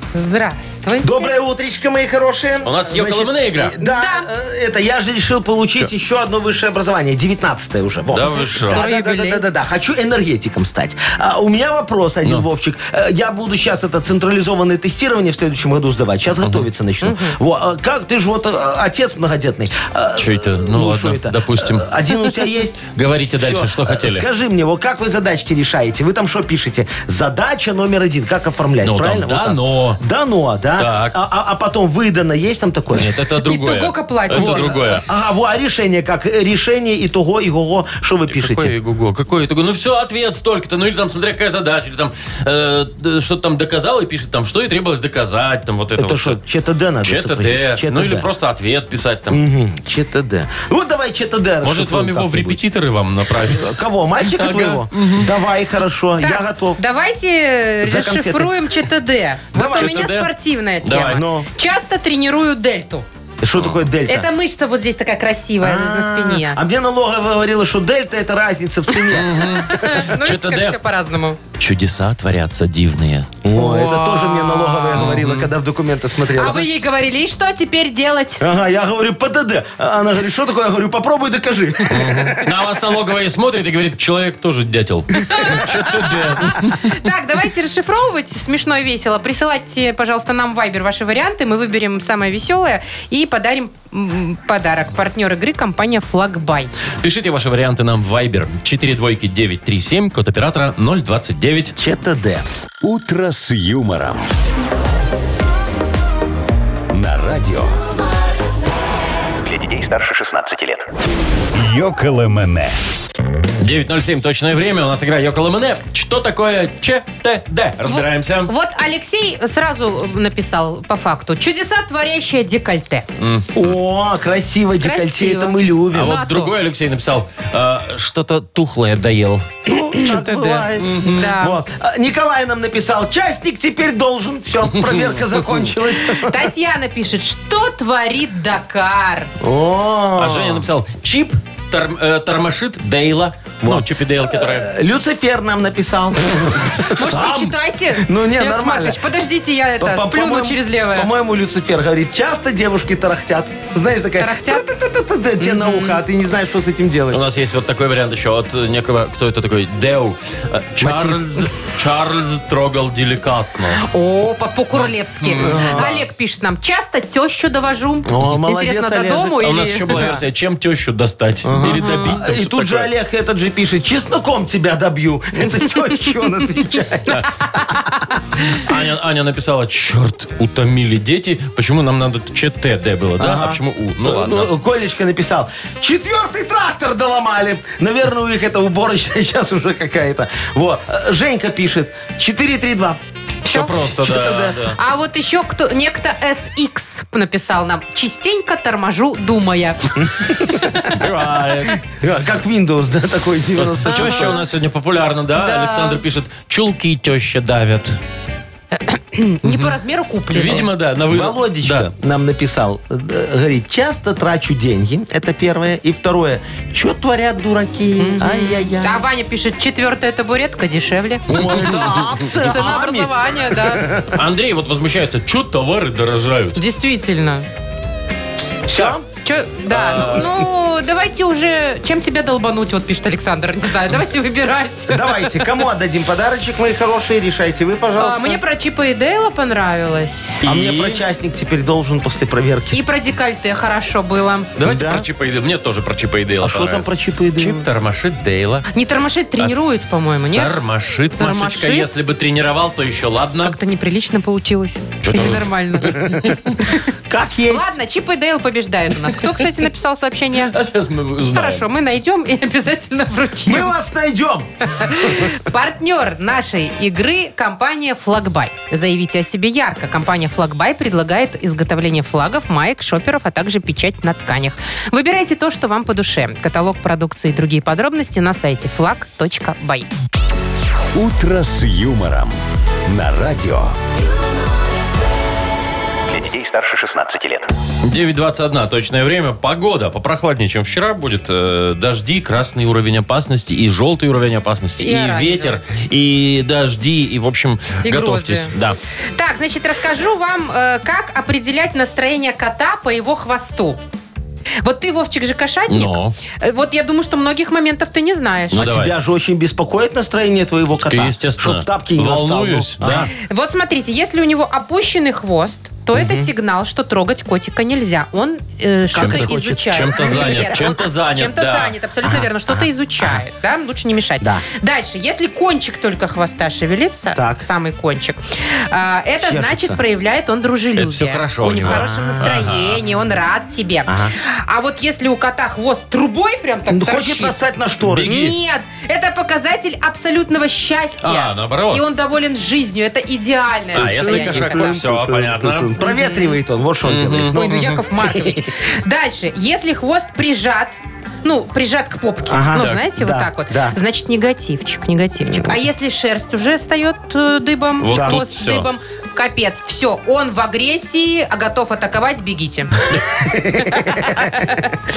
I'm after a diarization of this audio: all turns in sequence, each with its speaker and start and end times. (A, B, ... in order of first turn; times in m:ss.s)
0:00.1-0:01.3 A
0:01.0-0:33.1 B
0:02.6-0:03.8 C
0:03.8-0:04.3 A
0:08.1-0:08.8 C
0:08.7-0:09.5 A
0:16.4-0:16.7 C
0:17.0-0:17.4 A
0:20.2-0:21.9 C
0:22.9-0:24.3 C
0:28.8-0:30.0 C
0:30.8-0:31.2 C
0:32.9-0:35.0 C
0:33.4-0:35.0 A
0:34.3-0:38.7 B
0:38.3-0:46.4 C
0:46.0-0:48.3 B
0:47.0-0:49.4 C
0:49.3-0:52.6 B
0:51.6-0:55.3 C
0:53.4-0:56.8 B
0:56.2-1:03.1 A
0:57.8-0:58.5 B
0:59.6-1:00.0 B
0:59.7-1:00.3 C
1:00.8-1:01.2 C
1:01.0-1:01.5 B
1:03.4-1:04.3 B
1:03.6-1:03.9 C
1:04.1-1:06.6 A
1:05.6-1:10.1 B
1:09.1-1:10.8 C
1:09.4-1:11.4 A
1:11.6-1:13.3 C
1:13.4-1:16.7 B
1:13.5-1:15.2 A
1:14.9-1:15.5 C
1:16.4-1:18.4 A
1:18.4-1:22.5 B
1:21.9-1:27.0 C
1:25.2-1:36.7 A
1:37.0-1:41.7 C
1:41.8-1:42.5 B
1:42.8-1:44.3 D
1:46.9-1:47.8 D
1:49.4-1:50.9 E
1:51.5-1:52.8 D
1:53.6-1:58.5 C
1:57.8-2:03.1 A
2:03.2-2:03.8 C
2:03.6-2:06.2 B
2:04.8-2:06.5 A
2:05.9-2:09.5 C
2:09.7-2:16.4 B
2:10.0-2:11.6 A
2:10.8-2:11.2 C
2:16.1-2:19.3 A
2:19.4-2:20.6 B
2:20.2-2:24.7 C
2:23.6-2:29.0 B
2:26.9-2:31.1 A
2:29.8-2:37.2 B
2:34.2-2:34.7 A
2:35.4-2:36.0 A
2:37.1-2:43.8 C
2:40.8-2:41.5 B
2:43.8-2:50.2 A
2:44.8-2:46.1 C
2:45.4-2:45.9 B
2:48.1-2:49.4 B
2:49.4-2:52.9 C
2:49.9-2:50.2 B
2:51.4-2:57.8 B
2:51.6-2:52.2 A
2:57.6-2:58.0 A
2:58.5-3:04.5 C
3:03.2-3:13.0 B
3:13.4-3:13.8 A
3:13.5-3:14.8 C
3:13.8-3:14.6 B
3:14.8-3:20.0 A
3:20.0-3:20.9 B
3:20.9-3:21.8 C
3:22.0-3:24.4 B
3:23.6-3:28.0 C
3:23.9-3:24.4 A
3:25.4-3:26.0 A
3:28.8-3:30.7 A
3:29.4-3:29.7 C
3:30.3-3:31.9 C
3:31.1-3:39.0 B
3:38.0-3:43.9 A
3:41.3-3:44.1 B
3:41.3-3:42.3 C
3:44.1-3:46.6 C
3:46.6-3:47.5 A
3:48.7-3:49.0 B
3:48.7-3:49.0 C
3:49.2-3:55.4 A
3:49.7-3:50.3 C
3:54.9-3:58.4 B
3:58.0-4:00.4 A
4:00.4-4:01.0 C
4:00.4-4:02.8 B
4:02.7-4:04.5 A
4:04.6-4:08.7 C
4:04.6-4:05.0 B
4:06.4-4:07.7 B
4:08.7-4:10.5 A
4:10.3-4:13.6 C
4:11.2-4:11.9 A
4:13.4-4:16.0 A
4:15.0-4:16.5 C
4:16.0-4:16.3 B
4:17.1-4:17.7 B
4:17.5-4:20.5 A
4:20.4-4:21.7 C
4:21.3-4:23.8 A
4:23.5-4:25.2 B
4:24.7-4:39.9 A
4:40.9-4:43.8 D
4:46.1-4:47.5 E
4:47.8-4:58.8 C
4:54.8-4:55.6 A
4:57.8-4:58.5 A
4:59.1-5:03.8 A
5:04.6-5:08.7 A
5:05.7-5:06.2 C
5:08.5-5:08.9 C
5:08.5-5:13.1 B
5:10.7-5:13.1 C
5:13.2-5:37.4 A
5:15.9-5:16.3 B
5:18.9-5:20.6 B
5:19.0-5:21.8 C
5:22.0-5:23.2 B
5:27.2-5:27.4 B
5:29.2-5:29.8 B
5:30.8-5:32.8 C
5:31.6-5:32.6 B
5:33.9-5:34.1 B
5:36.7-5:38.1 B
5:37.8-5:38.4 C
5:38.0-5:44.8 A
5:41.0-5:41.8 C
5:43.7-5:48.4 B
5:43.8-5:45.7 C
5:45.8-5:46.4 A
5:46.8-5:47.8 C
5:47.3-6:02.8 A
5:52.3-5:53.8 B
5:57.8-5:58.7 C
5:57.9-5:58.2 B
6:02.9-6:04.3 B
6:03.6-6:04.8 A